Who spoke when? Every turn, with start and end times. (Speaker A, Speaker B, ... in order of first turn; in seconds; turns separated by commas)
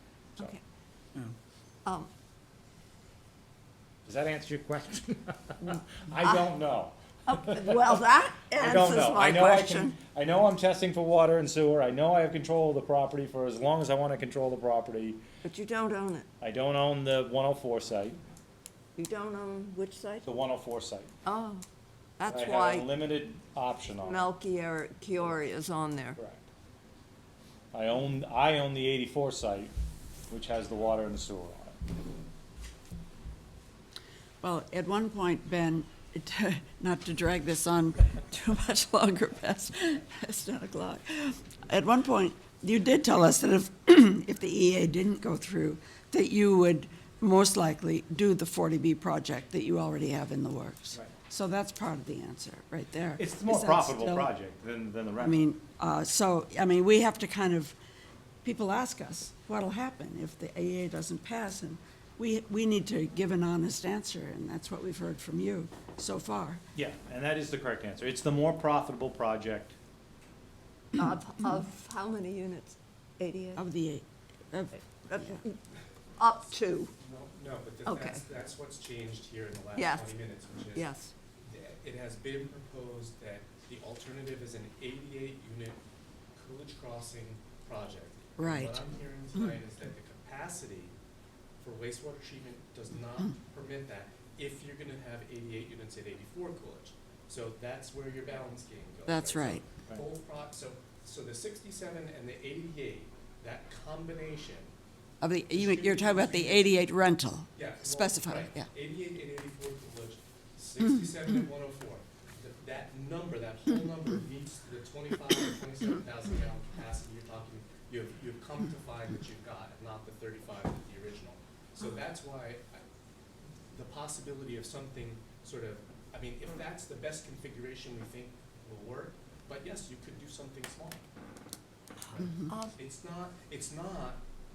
Speaker A: 4.1-8.0, Speaker B: 7.3-10.0, Speaker A: 8.6-15.2, Speaker B: 15.4-16.3, Speaker A: 16.4-18.2, Speaker B: 19.0-20.3, Speaker A: 20.2-21.1, Speaker B: 21.2-21.6, Speaker B: 22.2-22.9, Speaker A: 22.3-24.3, Speaker B: 24.0-26.2, Speaker A: 26.2-26.4, Speaker A: 27.7-29.7, Speaker A: 30.3-31.8, Speaker C: 34.4-54.3, Speaker A: 53.2-55.5, Speaker C: 55.2-57.8, Speaker C: 58.4-66.6, Speaker A: 66.8-69.8, Speaker B: 70.9-73.6, Speaker C: 73.6-75.4, Speaker B: 75.0-75.6, Speaker B: 76.2-76.9, Speaker D: 77.0-80.9, Speaker B: 77.9-78.2, Speaker B: 79.8-80.2, Speaker B: 80.7-81.1, Speaker D: 81.4-85.8, Speaker D: 86.3-90.9, Speaker C: 88.4-88.8, Speaker D: 91.6-104.7, Speaker C: 99.1-99.6, Speaker C: 105.2-108.7, Speaker D: 105.5-106.8, Speaker D: 107.5-122.8, Speaker D: 123.7-131.0, Speaker D: 132.1-134.2, Speaker B: 132.5-132.8